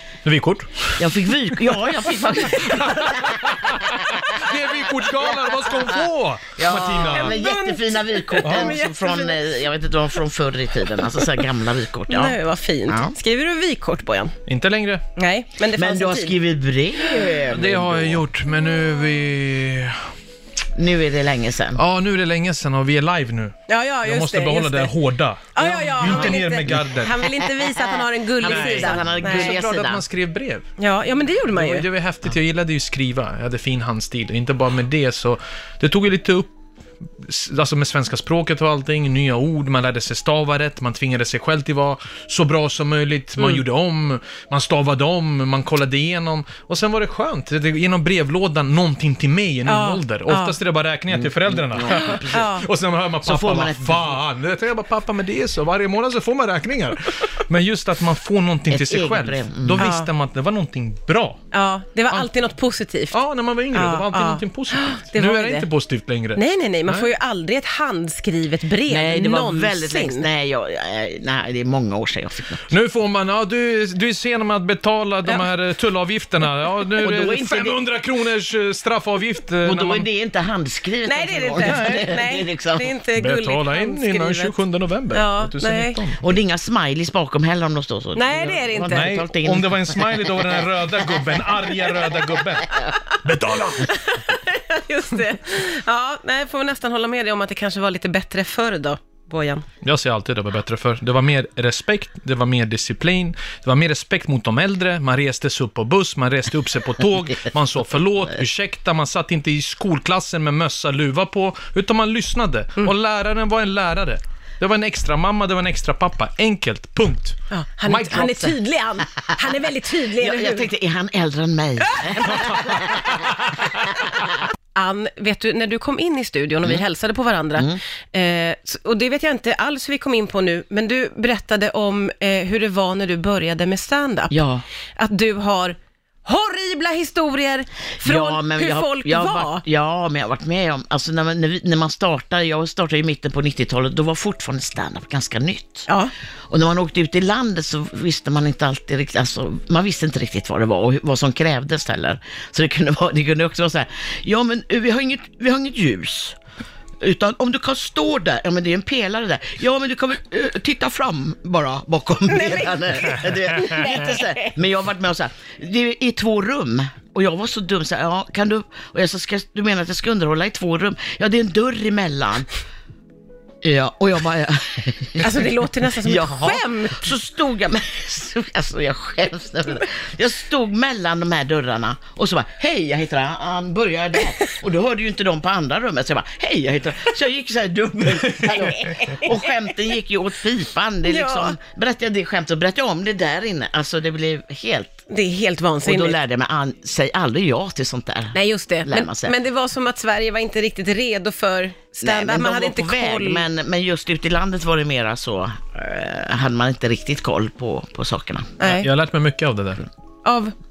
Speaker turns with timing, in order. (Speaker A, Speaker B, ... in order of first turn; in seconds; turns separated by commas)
Speaker A: 0.2-1.0, Speaker B: 1.0-3.7, Speaker A: 2.6-7.4, Speaker B: 6.6-12.4, Speaker C: 7.2-9.4, Speaker A: 8.4-8.7, Speaker C: 11.2-11.4, Speaker C: 12.1-14.3, Speaker B: 12.9-13.2, Speaker A: 14.5-15.0, Speaker C: 15.2-16.4, Speaker B: 15.7-18.2, Speaker A: 17.5-20.1, Speaker B: 20.8-21.8, Speaker A: 21.8-27.3, Speaker C: 23.7-24.9, Speaker C: 25.6-29.5, Speaker B: 28.4-30.0, Speaker A: 28.4-30.7, Speaker C: 30.8-31.9, Speaker A: 31.5-36.5, Speaker A: 37.2-61.4, Speaker C: 49.7-50.6, Speaker B: 51.1-52.6, Speaker C: 51.9-52.6, Speaker B: 53.2-54.2, Speaker B: 58.7-59.8, Speaker C: 59.8-60.1, Speaker C: 61.5-63.2, Speaker A: 63.1-67.1, Speaker C: 63.7-65.7, Speaker C: 66.4-70.3, Speaker B: 68.9-72.7, Speaker A: 72.7-80.1, Speaker B: 77.0-77.8, Speaker B: 79.7-82.9, Speaker C: 81.1-84.5, Speaker A: 81.6-82.1, Speaker A: 83.2-86.2, Speaker C: 85.1-86.0, Speaker B: 86.2-90.3, Speaker C: 88.2-89.2, Speaker A: 88.9-94.1, Speaker C: 93.9-99.7, Speaker A: 99.8-118.5, Speaker C: 117.5-120.7, Speaker B: 120.2-123.4, Speaker C: 121.9-122.4, Speaker C: 124.8-134.4, Speaker B: 134.3-134.6, Speaker C: 135.0-139.7, Speaker B: 138.0-145.9, Speaker B: 146.5-156.4, Speaker B: 157.0-172.5, Speaker C: 162.3-164.6, Speaker B: 173.6-195.0, Speaker C: 175.2-177.1, Speaker C: 188.5-189.4, Speaker C: 191.1-191.6, Speaker C: 195.1-196.2, Speaker B: 195.8-199.3, Speaker C: 198.3-203.4, Speaker B: 202.0-208.6, Speaker C: 208.6-208.9, Speaker A: 208.6-209.9, Speaker C: 210.2-210.5